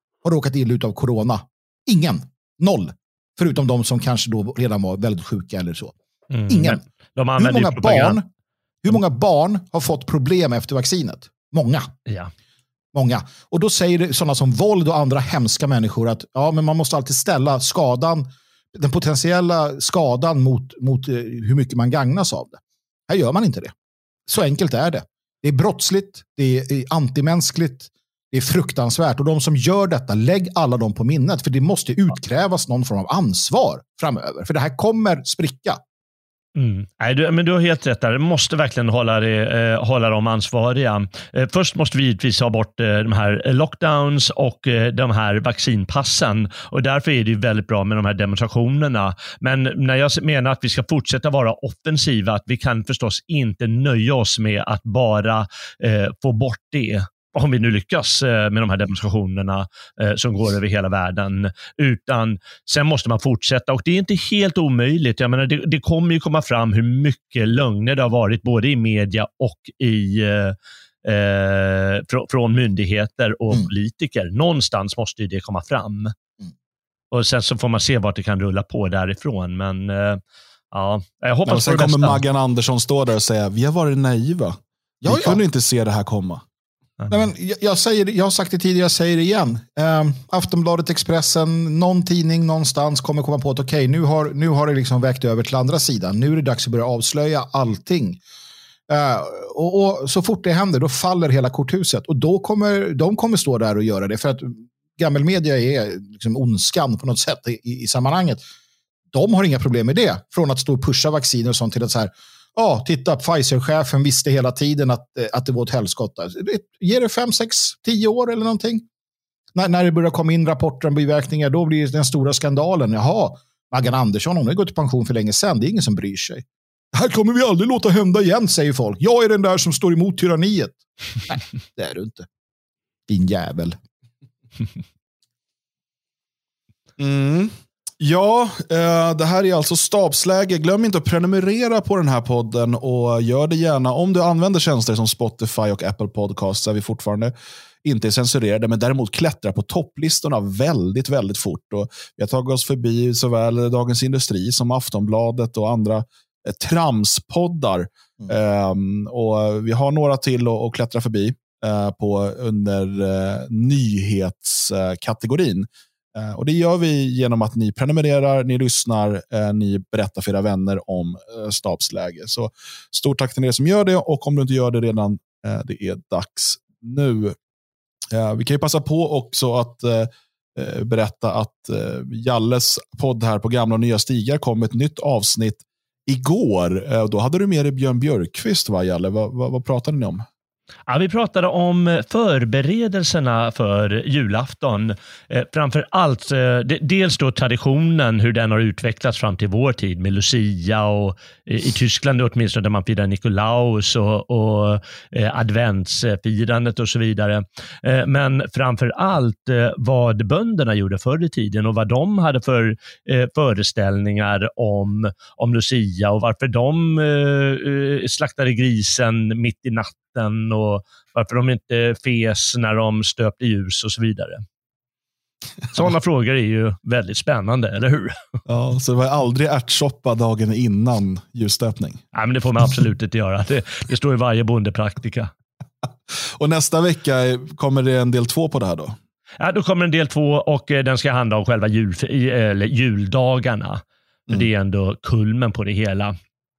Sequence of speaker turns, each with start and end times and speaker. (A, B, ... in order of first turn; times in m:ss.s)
0:00.2-0:06.0 A
0:06.3-0:08.2 B
0:06.5-0:06.8 A
0:07.4-0:08.3 A
0:08.8-0:11.9 A
0:12.9-0:23.7 A
0:24.3-0:35.8 A
0:36.6-1:16.2 B
1:17.1-1:22.2 B
1:21.5-1:26.4 C
1:25.0-1:25.4 A
1:27.1-1:38.2 A
1:38.9-1:48.4 A
1:49.1-1:58.8 A
1:59.6-2:12.3 A
2:13.1-2:13.8 A
2:17.0-2:27.3 C
2:27.8-2:57.4 C
2:58.1-3:10.2 C
3:10.9-3:44.4 B
3:45.7-3:48.2 B
3:48.5-3:52.0 C
3:52.1-3:55.3 B
3:56.1-3:59.0 C
3:59.4-4:06.2 B